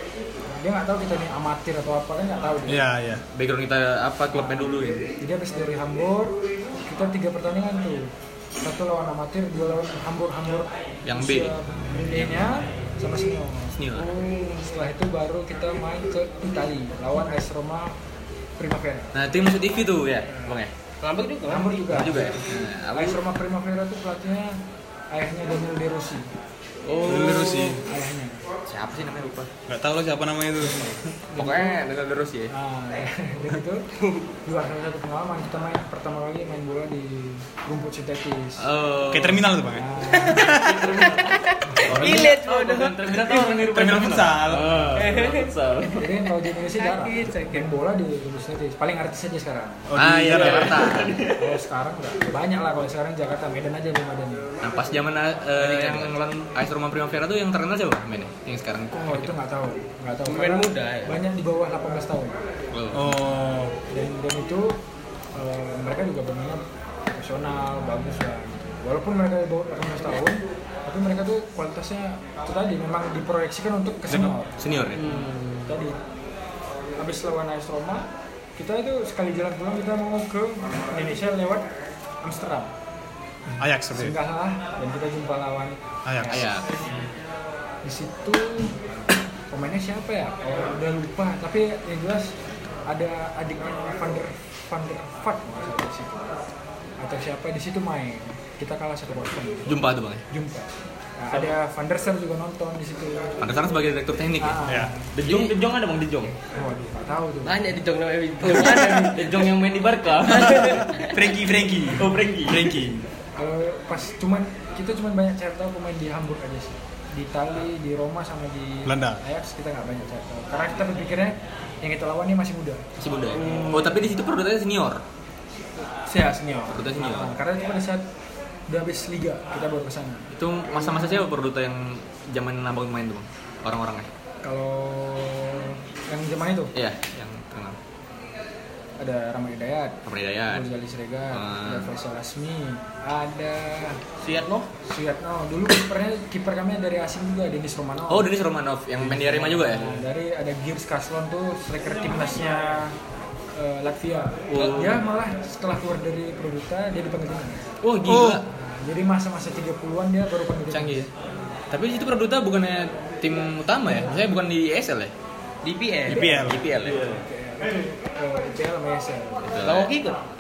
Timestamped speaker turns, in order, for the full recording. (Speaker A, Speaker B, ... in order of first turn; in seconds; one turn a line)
Speaker A: 0.5-2.9
Speaker B: 2.7-3.2
Speaker C: 3.3-5.0
Speaker A: 4.3-17.9
Speaker C: 11.1-11.5
Speaker C: 12.1-12.5
Speaker C: 13.8-14.1
Speaker A: 18.6-19.1
Speaker C: 19.1-20.7
Speaker A: 20.3-20.5
Speaker D: 21.0-22.1
Speaker A: 21.5-24.6
Speaker C: 21.9-23.2
Speaker A: 25.1-26.3
Speaker C: 26.9-27.8
Speaker B: 27.0-27.8
Speaker A: 27.9-28.4
Speaker C: 28.7-29.5
Speaker B: 29.7-31.1
Speaker A: 30.7-31.8
Speaker C: 31.4-32.5
Speaker A: 32.5-33.9
Speaker A: 34.4-38.7
Speaker C: 38.6-39.4
Speaker B: 39.1-40.8
Speaker A: 39.7-40.6
Speaker D: 40.2-43.7
Speaker E: 40.5-41.4
Speaker B: 41.9-42.3
Speaker E: 41.9-46.0
Speaker C: 41.9-42.2
Speaker B: 43.7-45.0
Speaker D: 45.0-45.5
Speaker A: 46.0-49.9
Speaker D: 46.6-47.7
Speaker B: 49.9-50.8
Speaker C: 50.0-51.2
Speaker E: 50.3-51.6
Speaker A: 51.2-54.5
Speaker C: 54.6-59.3
Speaker D: 55.6-56.1
Speaker A: 58.9-62.4
Speaker D: 60.3-61.2
Speaker C: 62.7-63.2
Speaker B: 62.9-63.8
Speaker A: 63.9-74.6
Speaker C: 74.6-75.0
Speaker E: 75.0-75.8
Speaker A: 75.1-76.0
Speaker A: 77.0-81.7
Speaker A: 82.2-82.7
Speaker B: 83.6-84.2
Speaker A: 83.9-86.7
Speaker B: 86.0-86.5
Speaker C: 86.3-86.7
Speaker A: 87.8-88.9
Speaker A: 89.5-96.4
Speaker A: 97.0-103.5
Speaker C: 99.7-100.2
Speaker C: 103.4-104.6
Speaker A: 104.4-105.1
Speaker B: 104.7-104.9
Speaker E: 105.1-106.4
Speaker C: 105.2-105.5
Speaker A: 106.5-107.6
Speaker D: 107.4-109.6
Speaker E: 108.4-110.8
Speaker D: 110.2-111.1
Speaker B: 110.6-113.0
Speaker E: 111.9-112.8
Speaker A: 113.4-122.8
Speaker B: 118.8-119.2
Speaker C: 123.0-125.0
Speaker D: 123.4-124.0
Speaker A: 126.0-128.1
Speaker C: 126.7-127.4
Speaker A: 128.7-131.3
Speaker C: 130.3-134.1
Speaker A: 134.4-136.7
Speaker C: 136.7-137.8
Speaker A: 139.0-140.0
Speaker C: 140.1-140.7
Speaker A: 140.5-144.0
Speaker C: 141.3-141.9
Speaker D: 144.2-144.7
Speaker A: 144.8-148.3
Speaker C: 148.1-150.1
Speaker A: 149.0-153.0
Speaker A: 153.5-157.7
Speaker C: 154.5-154.9
Speaker C: 157.8-158.4
Speaker B: 158.1-158.4
Speaker A: 158.5-161.1
Speaker C: 160.7-161.1
Speaker C: 161.7-165.1
Speaker D: 165.6-166.3
Speaker B: 166.1-166.7
Speaker A: 166.1-169.6
Speaker C: 166.5-167.1
Speaker E: 166.8-167.2
Speaker C: 169.5-169.9
Speaker D: 169.6-170.2